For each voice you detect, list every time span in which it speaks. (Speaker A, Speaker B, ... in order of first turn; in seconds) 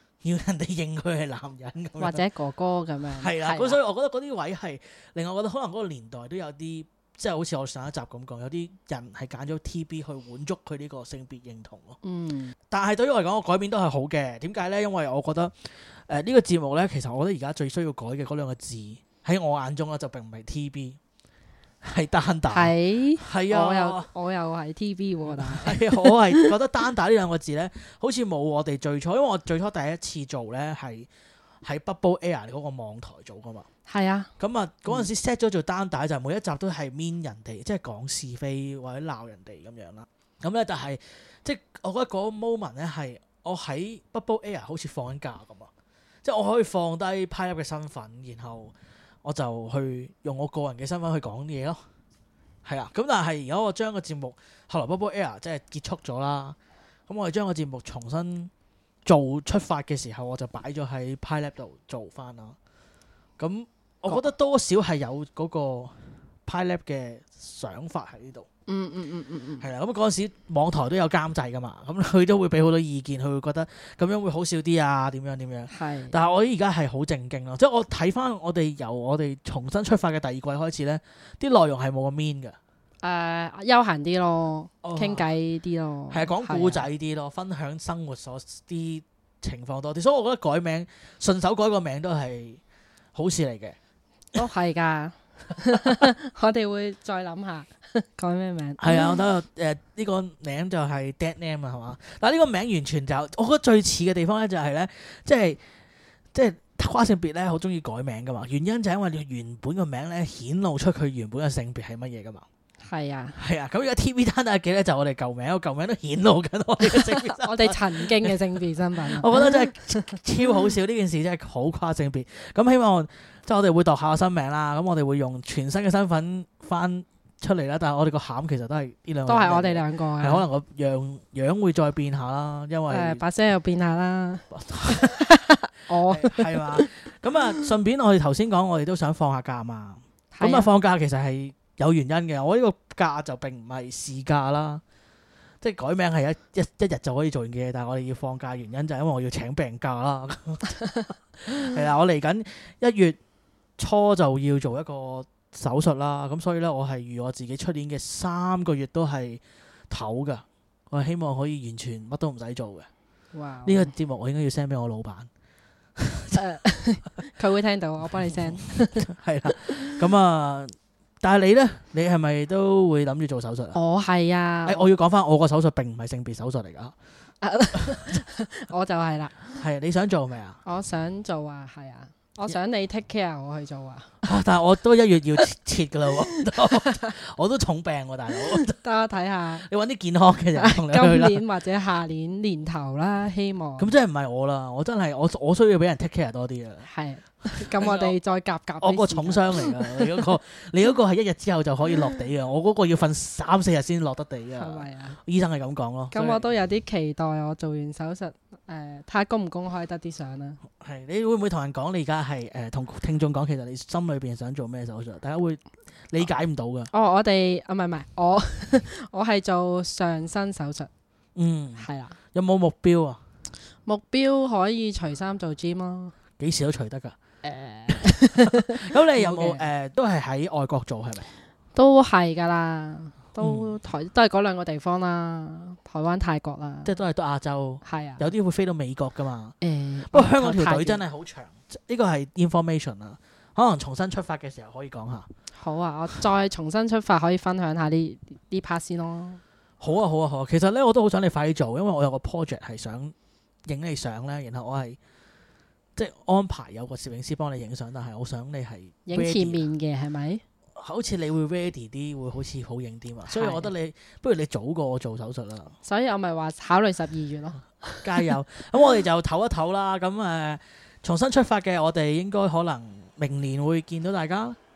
Speaker A: 0.2-2.2, 3.2-12.0, 12.7-21.0, 21.8-24.1, 25.3-31.1, 31.6-33.7, 34.4-45.7, 46.2-51.8, 52.6-56.6, 57.1-58.5, 59.0-62.6, 63.4-68.5, 69.6-82.6, 84.8-85.3, 86.1-92.6, 93.1-93.8, 98.8-105.6, 106.3-112.5, 113.3-118.3, 119.0-133.2, 134.5-135.1, 136.1-144.8, 145.6-150.8, 151.4-153.2, 153.8-162.9, 163.7-165.3, 166.0-166.4, 168.2-173.8, 174.7-176.9, 179.6-180.6, 184.2-188.7, 189.6-191.4, 193.8-196.9, 197.6-198.2, 198.8-206.5, 210.8-216.9, 221.3-223.2, 226.4-227.2, 228.6-231.3, 233.4-233.7, 236.8-239.6, 240.1-245.3, 249.8-253.1, 253.7-255.0, 255.9-259.6, 260.8-265.8, 268.0-274.6
Speaker B: 2.0-3.8, 12.0-12.5, 22.5-26.5, 33.9-34.3, 68.7-69.7, 75.7-76.2, 83.0-86.9, 94.3-99.2, 112.8-113.4, 116.8-120.2, 129.3-130.4, 132.9-136.9, 140.3-140.7, 163.3-163.9, 166.3-169.0, 173.7-174.9, 177.4-179.6, 180.6-184.1, 186.3-187.1, 188.5-189.7, 190.5-193.9, 196.8-200.0, 204.6-205.2, 206.1-210.6, 216.9-220.9, 221.8-222.2, 223.8-226.1, 227.4-229.7, 231.7-236.9, 237.8-238.3, 239.6-241.0, 245.6-249.4, 259.1-260.4, 263.3-263.7, 265.8-268.3